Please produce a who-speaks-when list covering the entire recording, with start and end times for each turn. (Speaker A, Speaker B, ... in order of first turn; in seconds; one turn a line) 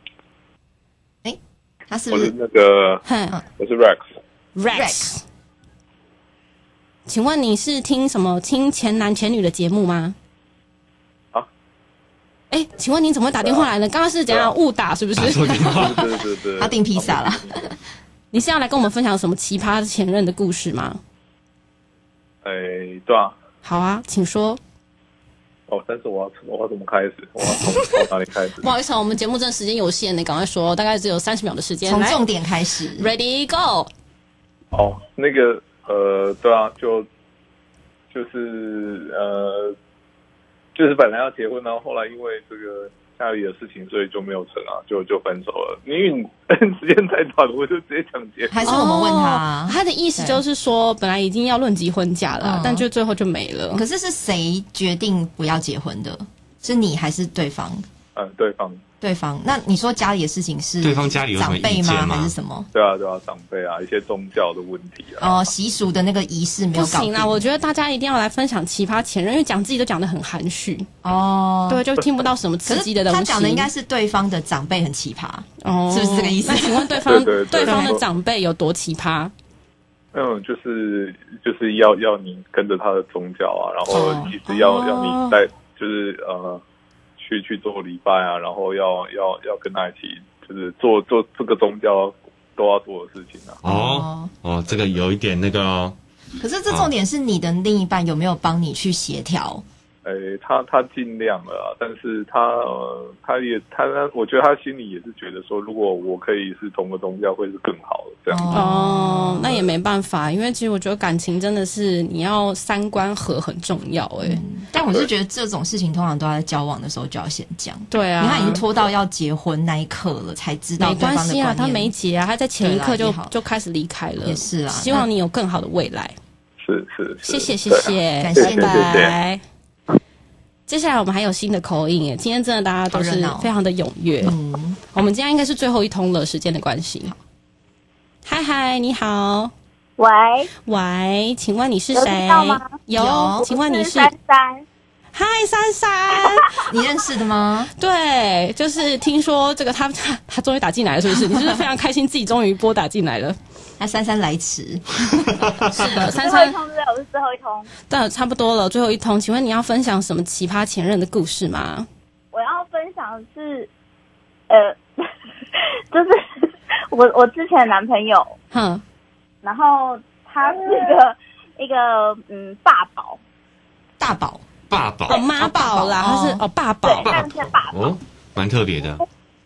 Speaker A: 1.2-2.3
Speaker B: 2.1-4.1
Speaker C: 3.0-3.4
Speaker C: 4.6-5.2
Speaker A: 4.7-5.0
Speaker C: 7.1-10.2
Speaker C: 12.5-15.5
Speaker B: 13.4-13.7
Speaker B: 14.3-14.5
Speaker D: 15.2-16.0
Speaker A: 15.4-17.8
Speaker B: 15.6-17.6
Speaker C: 18.3-21.0
Speaker B: 22.4-23.4
Speaker C: 23.6-24.6
Speaker B: 25.7-28.7
Speaker C: 28.6-32.2
Speaker A: 31.9-33.1
Speaker C: 33.0-33.9
Speaker B: 34.7-37.1
Speaker B: 38.1-39.8
Speaker B: 40.8-48.8
Speaker A: 48.5-50.4
Speaker C: 48.6-53.8
Speaker A: 52.4-52.9
Speaker A: 53.7-57.9
Speaker B: 58.1-58.8
Speaker A: 59.0-62.7
Speaker D: 60.8-62.3
Speaker B: 62.7-65.5
Speaker A: 65.2-67.5
Speaker C: 66.8-70.9
Speaker A: 71.0-71.8
Speaker C: 71.7-73.7
Speaker A: 72.7-78.0
Speaker C: 75.6-79.3
Speaker B: 77.0-78.0
Speaker B: 80.1-86.6
Speaker A: 83.9-85.4
Speaker C: 84.5-85.3
Speaker B: 87.2-93.6
Speaker D: 93.6-96.0
Speaker A: 93.7-94.3
Speaker A: 96.4-99.6
Speaker B: 100.0-108.6
Speaker A: 108.3-109.7
Speaker C: 108.5-114.4
Speaker A: 114.2-121.9
Speaker C: 117.9-118.6
Speaker C: 120.8-126.2
Speaker A: 122.6-123.4
Speaker A: 124.2-125.1
Speaker B: 126.6-129.2
Speaker C: 127.2-129.4
Speaker A: 128.2-129.0
Speaker C: 130.7-134.4
Speaker A: 132.9-133.5
Speaker A: 134.2-134.8
Speaker C: 134.9-137.1
Speaker C: 138.2-139.5
Speaker E: 140.0-140.5
Speaker C: 140.6-144.1
Speaker E: 141.9-142.8
Speaker A: 142.9-143.5
Speaker E: 143.4-144.6
Speaker C: 145.1-146.6
Speaker A: 146.5-147.7
Speaker C: 147.8-153.4
Speaker A: 151.1-151.6
Speaker A: 153.8-156.1
Speaker C: 155.7-156.6
Speaker E: 156.2-157.7
Speaker C: 157.9-161.9
Speaker E: 162.3-163.7
Speaker E: 164.5-168.3
Speaker C: 168.5-168.8
Speaker E: 169.4-173.2
Speaker A: 174.0-174.4
Speaker D: 174.7-175.2
Speaker C: 175.1-177.1
Speaker A: 175.3-176.4
Speaker E: 176.8-177.9
Speaker D: 177.0-179.0